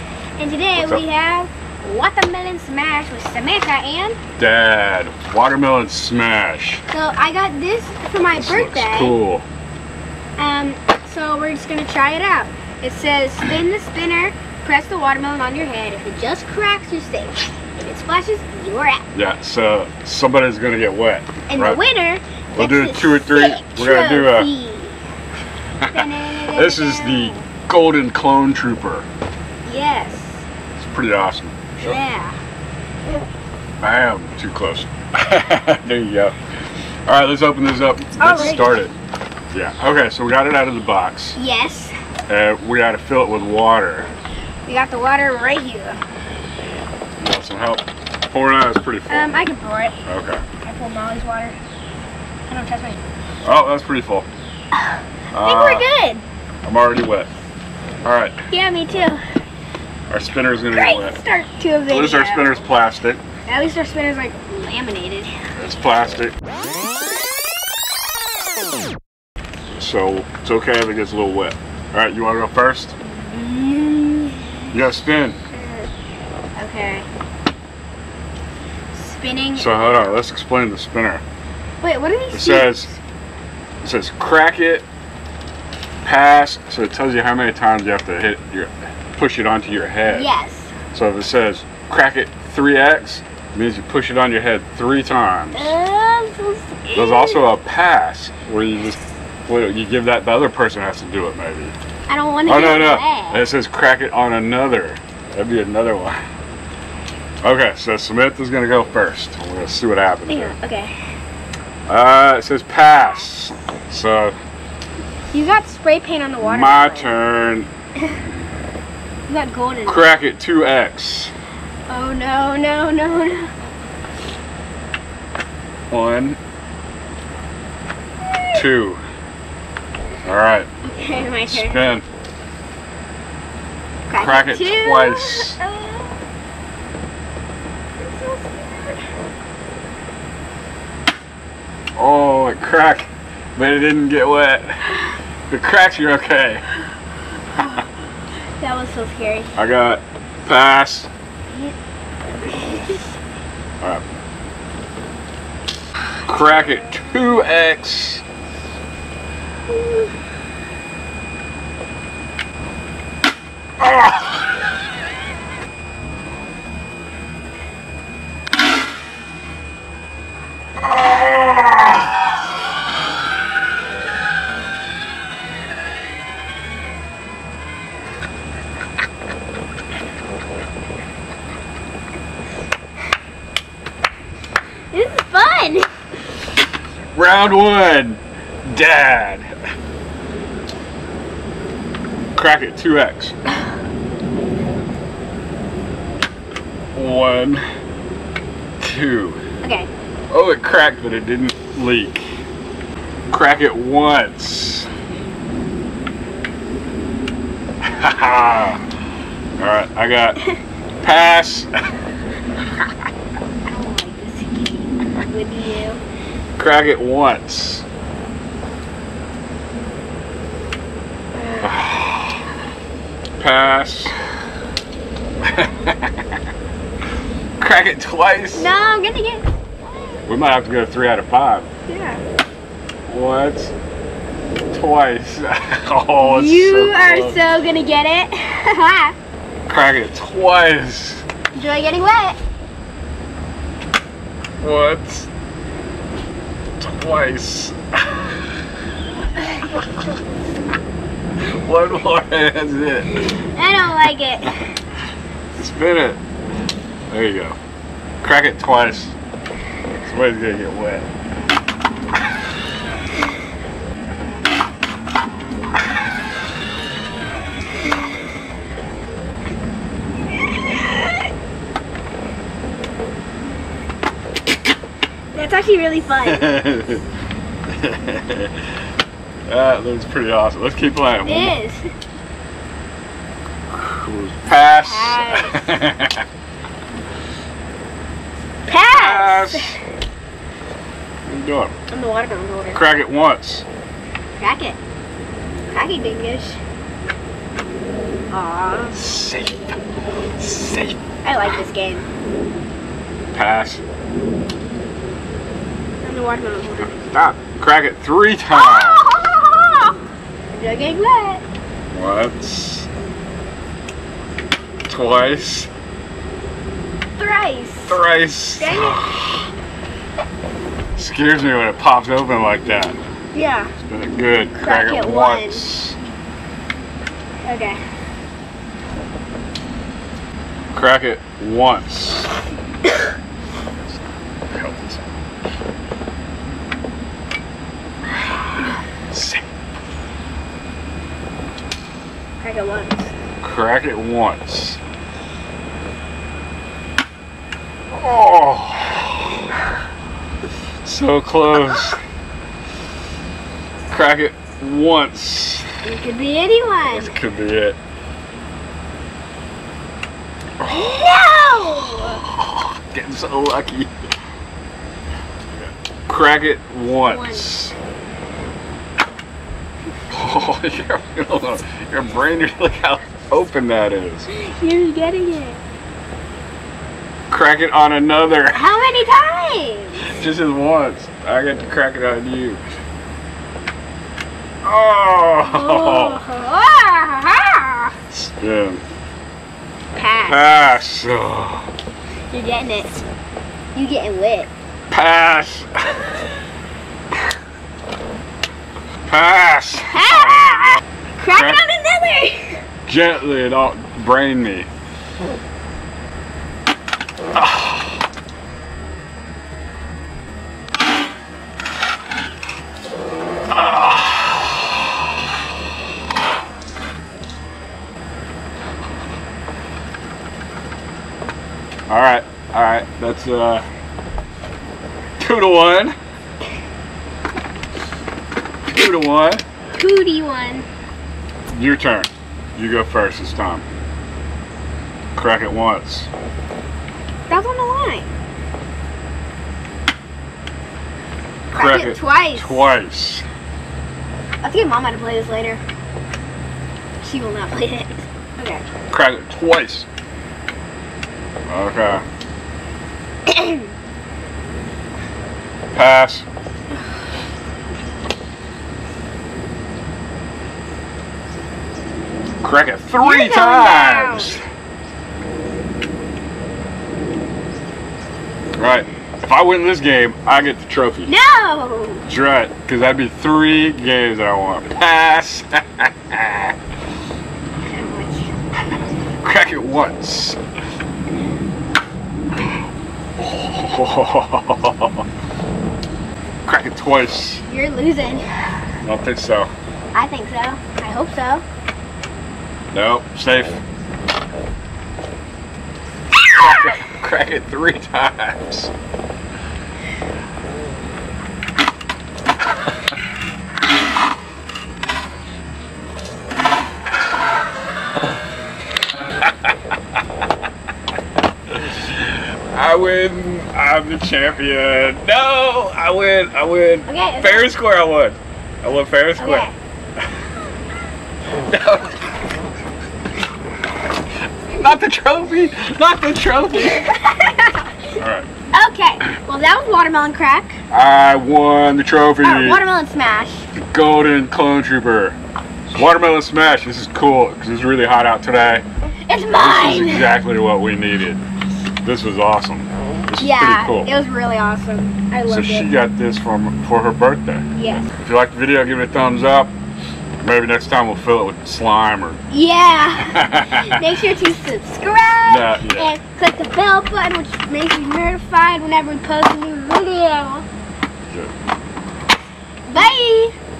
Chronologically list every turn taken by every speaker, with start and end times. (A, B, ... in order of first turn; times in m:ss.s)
0:00.4-0:04.2 A
0:00.8-0:01.0 B
0:04.4-0:06.8 B
0:06.9-0:09.2 A
0:08.3-0:09.4 B
0:10.4-0:19.0 A
0:19.1-0:21.8 B
0:21.5-0:25.0 A
0:22.6-0:24.5 B
0:25.8-0:29.0 B
0:25.9-0:27.4 A
0:29.6-0:30.4 A
0:30.8-0:32.0 B
0:31.8-0:32.4 A
0:33.8-0:36.3 B
0:37.0-0:38.9 B
0:38.2-0:38.7 A
0:39.5-0:41.4 B
0:41.3-0:41.9 A
0:42.3-0:44.1 B
0:44.6-0:46.0 A
0:47.2-0:49.3 B
0:49.1-0:50.0 A
0:50.0-0:50.4 B
0:50.6-0:51.6 A
0:52.5-0:53.0 A
0:53.4-0:54.3 B
0:54.7-0:56.2 A
0:55.3-0:55.8 B
0:56.6-0:57.3 B
0:58.0-0:58.4 B
0:58.5-0:59.2 A
1:00.1-1:01.2 B
1:00.7-1:02.6 A
1:01.9-1:03.2 B
1:03.4-1:05.3 A
1:05.6-1:06.3 B
1:09.7-1:12.9 B
1:13.0-1:14.6 A
1:14.7-1:15.4 B
1:15.5-1:15.9 A
1:16.6-1:17.1 A
1:18.9-1:20.2 A
1:19.6-1:21.2 B
1:21.8-1:23.0 A
1:22.3-1:22.9 B
1:23.8-1:24.8 B
1:26.0-1:30.3 B
1:30.0-1:30.7 A
1:30.9-1:35.7 B
1:35.5-1:37.5 A
1:36.9-1:41.7 B
1:42.1-1:43.5 A
1:42.4-1:46.2 B
1:47.4-1:50.5 B
1:50.3-1:50.9 A
1:51.9-1:54.4 B
1:52.9-1:53.3 A
1:55.3-1:57.1 A
1:56.4-1:57.7 B
1:59.3-2:00.0 A
1:59.8-2:01.3 B
2:01.9-2:03.5 A
2:05.9-2:06.4 B
2:08.2-2:08.6 A
2:08.5-2:09.0 B
2:10.2-2:10.7 B
2:10.8-2:11.9 A
2:11.5-2:12.0 B
2:14.1-2:16.2 A
2:14.2-2:15.6 B
2:18.0-2:19.0 A
2:22.0-2:24.9 B
2:25.5-2:26.6 B
2:27.6-2:27.8 A
2:28.6-2:29.5 A
2:29.6-2:31.1 B
2:32.4-2:33.0 A
2:36.2-2:38.2 B
2:36.3-2:37.1 A
2:39.7-2:40.1 A
2:51.1-2:51.8 B
3:04.9-3:05.9 A
3:07.1-3:09.5 B
3:12.4-3:13.3 B
3:16.9-3:17.6 B
3:18.8-3:19.4 B
3:19.6-3:19.9 A
3:20.3-3:22.2 B
3:23.3-3:24.9 B
3:27.8-3:28.8 B
3:29.6-3:30.4 B
3:31.0-3:31.7 B
3:33.6-3:36.0 A
3:36.6-3:37.8 B
3:41.4-3:41.8 A
3:41.6-3:42.5 B
3:43.4-3:44.1 B
3:45.4-3:46.4 B
3:47.6-3:48.7 B
3:48.5-3:49.5 A
3:50.3-3:51.7 B
3:51.9-3:52.2 A
3:53.0-3:53.7 B
3:54.7-3:57.4 B
3:56.2-3:59.1 A
3:59.7-4:01.2 B
4:01.5-4:02.4 A
4:04.6-4:05.3 B
4:06.8-4:08.4 B
4:11.4-4:13.3 B
4:13.4-4:14.7 A
4:15.6-4:16.2 B
4:17.1-4:17.6 B
4:18.2-4:19.1 B
4:20.0-4:21.1 B
4:35.3-4:36.6 A
4:36.2-4:37.0 B
4:37.7-4:38.6 B
4:39.5-4:41.6 B
4:41.2-4:41.8 A
4:43.7-4:46.2 B
4:44.7-4:45.7 A
4:48.6-4:49.8 A
4:48.9-4:49.7 B
4:51.2-4:51.7 B
4:51.9-4:52.8 A
4:52.7-4:53.6 B
4:54.4-4:54.8 A
4:55.7-4:56.6 A
4:58.3-4:59.0 A
4:58.9-4:59.8 B
5:00.4-5:01.0 B
5:01.2-5:02.1 A
5:03.3-5:03.8 B
5:06.0-5:07.0 A
5:07.0-5:09.2 B
5:08.5-5:10.0 A
5:10.5-5:11.4 A
5:11.9-5:12.9 B
5:14.9-5:15.7 B
5:17.2-5:18.0 A
5:17.9-5:19.5 B
5:18.6-5:19.0 A
5:21.0-5:23.0 B
5:23.3-5:23.7 A
5:23.8-5:26.0 B
5:24.5-5:25.7 A
5:27.4-5:27.8 A
5:30.7-5:32.3 B
5:34.5-5:35.0 B
5:39.1-5:39.4 B
5:42.4-5:43.1 A
5:43.4-5:44.8 B
5:47.9-5:49.4 B
5:50.8-5:52.0 B
5:53.9-5:55.6 B
5:55.8-5:57.1 A
5:56.8-5:57.8 B
6:00.6-6:01.2 B
6:00.6-6:02.2 A
6:02.2-6:03.9 B
6:05.5-6:07.7 B
6:07.0-6:07.5 A
6:10.1-6:14.3 B
6:14.3-6:15.6 A
6:17.3-6:18.7 B
6:18.5-6:20.2 A
6:20.0-6:22.6 B
6:24.6-6:26.2 B
6:25.4-6:27.9 A
6:28.1-6:28.8 B
6:29.9-6:30.5 A
6:30.2-6:31.7 B
6:32.3-6:33.0 A
6:33.7-6:34.5 A
6:34.9-6:36.1 B
6:39.0-6:40.6 B
6:39.9-6:42.6 A
6:41.3-6:41.6 B
6:42.8-6:44.7 B
6:53.6-6:54.0 B
7:01.9-7:03.6 B
7:05.2-7:05.9 B
7:08.7-7:09.4 B
7:09.8-7:10.6 A
7:11.5-7:13.6 B
7:15.1-7:16.1 B
7:17.3-7:18.1 A
7:21.5-7:22.7 A
7:21.5-7:23.2 B
7:24.4-7:25.6 A
7:27.0-7:28.6 A
7:28.9-7:29.9 B
7:31.5-7:32.0 B
7:33.3-7:33.6 A
7:35.7-7:36.2 B
7:42.4-7:44.4 B
7:43.0-7:44.3 A
7:48.6-7:51.1 B
7:51.1-7:52.0 A
7:52.1-7:56.5 B
7:57.6-7:58.3 A
7:59.2-8:00.4 B
8:03.2-8:05.0 B
8:06.4-8:07.4 B
8:07.5-8:08.2 A
8:08.8-8:09.5 B
8:09.9-8:11.4 A
8:12.7-8:13.6 B
8:16.3-8:16.7 A
8:16.3-8:18.7 B
8:31.6-8:39.5 B
8:36.9-8:37.5 A
8:39.2-8:39.5 A
8:41.4-8:42.1 B
8:44.5-8:46.8 B
8:46.5-8:47.8 A
8:48.0-8:48.3 B
8:48.5-8:50.6 A
8:50.7-8:52.6 B
8:52.2-8:53.5 A
8:53.6-8:55.2 B
8:55.7-8:58.6 B
8:59.1-9:00.1 A
8:59.3-9:01.2 B
9:01.8-9:03.9 B
9:03.2-9:05.7 A
9:05.3-9:09.5 B
9:07.5-9:07.9 A
9:10.2-9:12.2 B
9:12.3-9:20.4 A
9:13.0-9:13.9 B
9:15.2-9:16.0 B
9:22.7-9:23.3 A